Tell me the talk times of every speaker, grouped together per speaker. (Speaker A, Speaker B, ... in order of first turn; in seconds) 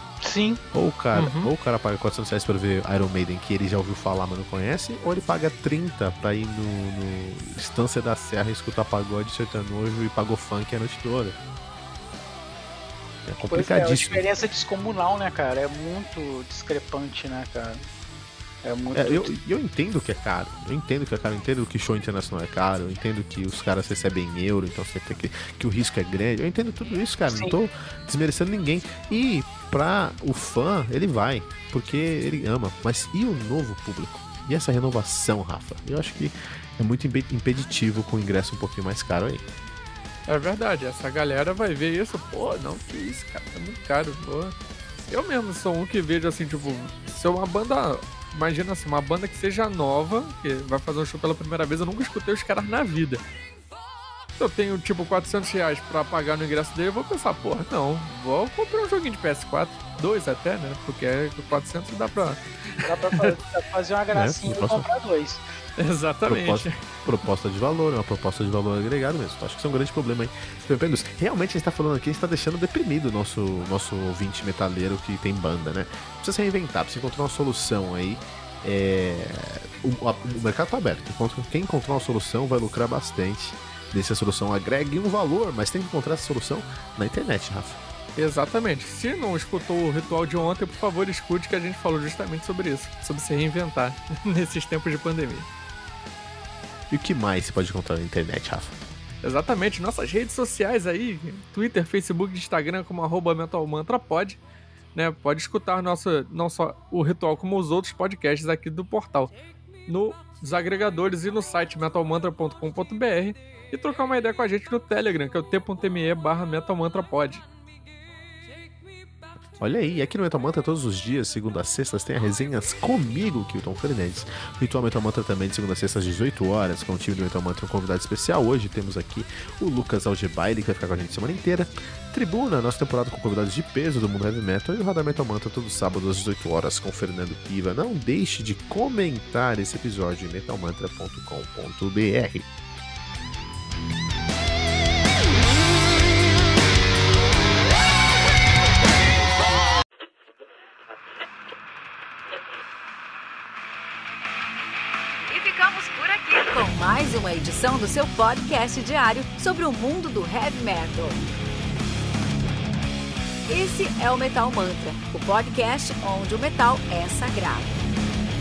Speaker A: 0.2-0.6, 13.5-17.8, 18.6-19.3, 27.3-27.5, 62.8-65.4
Speaker B: 0.7-11.4, 13.2-14.2, 18.9-39.4, 64.1-64.9, 66.2-87.8, 96.9-98.7, 119.6-142.5
Speaker C: 1.1-1.5, 40.3-44.5, 45.1-53.2, 54.4-63.3, 65.8-66.8, 88.2-95.5, 99.2-104.4, 104.9-109.3, 109.9-117.4
Speaker D: 155.3-161.2, 163.5-167.7